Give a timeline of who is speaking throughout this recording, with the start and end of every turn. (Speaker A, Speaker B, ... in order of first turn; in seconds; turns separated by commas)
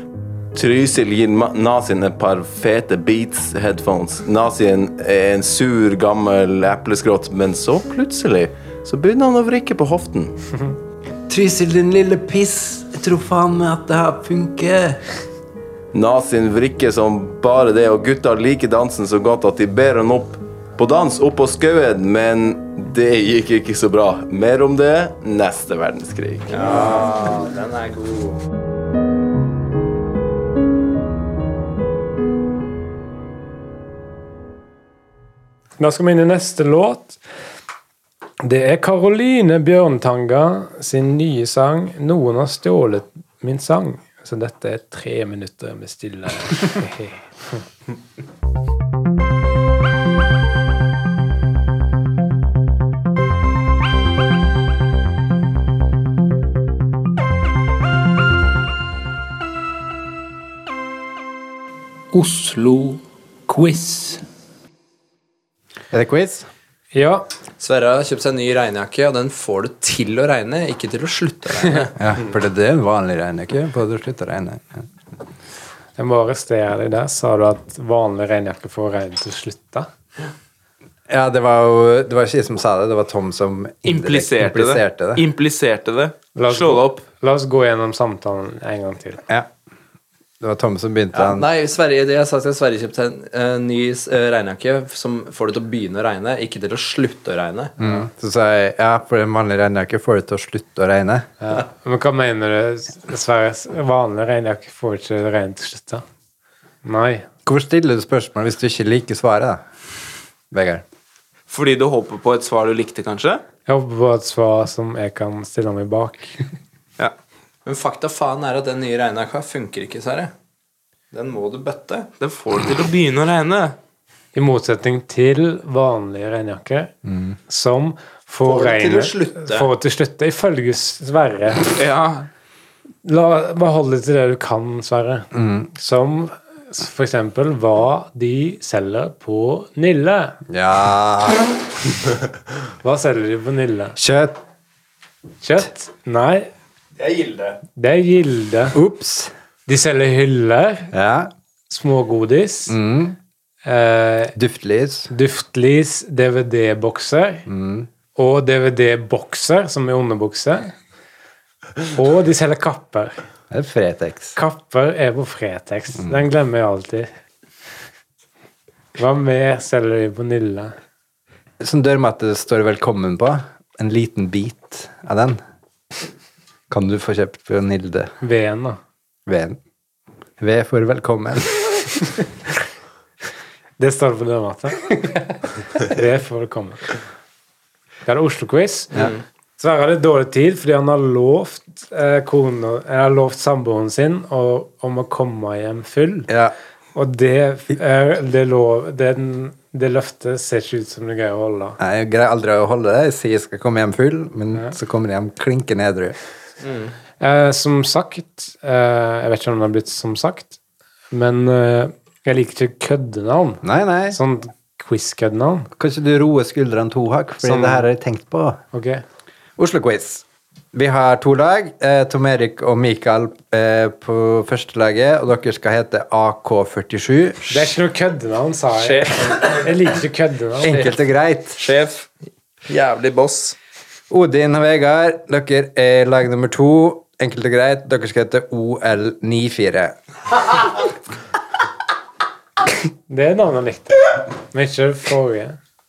Speaker A: 0.6-10.4, Speaker B: 11.3-15.0, Speaker A: 15.9-26.9, Speaker C: 26.5-28.4, Speaker D: 35.8-37.2, Speaker D: 38.4-47.6, Speaker E: 62.1-64.2, Speaker B: 65.9-66.5, Speaker D: 66.9-67.3, Speaker C: 67.6-71.9, Speaker B: 72.0-74.9, Speaker D: 76.0-79.9, Speaker B: 81.1-85.2, Speaker F: 83.9-87.0, Speaker D: 86.4-89.2, Speaker B: 90.4-91.5, Speaker C: 91.1-97.8, Speaker B: 97.8-101.3, Speaker D: 101.4-106.0, Speaker D: 106.8-107.3, Speaker B: 107.5-109.6, Speaker B: 110.5-110.8, Speaker F: 111.5-113.4, Speaker D: 113.7-116.4, Speaker C: 117.7-120.3, Speaker C: 121.1-122.1, Speaker F: 122.2-123.8, Speaker D: 124.3-126.9, Speaker B: 127.1-127.4, Speaker D: 127.5-131.7, Speaker C: 128.4-129.7, Speaker F: 131.8-132.3, Speaker D: 133.0-140.4, Speaker B: 135.3-135.7, Speaker B: 140.5-141.5, Speaker D: 142.8-144.0, Speaker B: 144.0-144.4, Speaker D: 145.4-146.5, Speaker D: 147.8-148.8, Speaker B: 148.7-149.3, Speaker D: 149.7-150.9, Speaker B: 150.9-151.3, Speaker D: 151.7-152.8, Speaker B: 152.7-153.2, Speaker D: 153.7-154.3, Speaker B: 154.3-155.1, Speaker D: 155.1-157.5, Speaker B: 157.5-157.9, Speaker D: 158.2-160.7, Speaker D: 161.9-163.2, Speaker B: 163.5-164.4, Speaker D: 164.4-167.1, Speaker D: 169.0-170.7, Speaker B: 171.6-175.4, Speaker B: 176.7-178.1, Speaker D: 178.2-178.8, Speaker B: 179.3-179.6, Speaker B: 180.4-181.9, Speaker D: 183.8-186.9, Speaker D: 188.1-189.0, Speaker C: 188.9-189.2, Speaker D: 189.6-196.3, Speaker B: 196.3-196.5, Speaker D: 196.9-201.8, Speaker B: 201.8-206.2, Speaker C: 206.6-206.9, Speaker D: 207.2-210.6, Speaker D: 211.1-215.7, Speaker B: 213.6-214.2, Speaker B: 215.8-218.6, Speaker D: 217.4-217.9, Speaker D: 218.7-219.0, Speaker B: 219.6-227.7, Speaker D: 227.5-230.9, Speaker C: 228.8-229.7, Speaker B: 230.6-231.6, Speaker C: 231.6-232.1, Speaker C: 232.7-233.6, Speaker B: 234.1-240.0, Speaker D: 243.1-245.6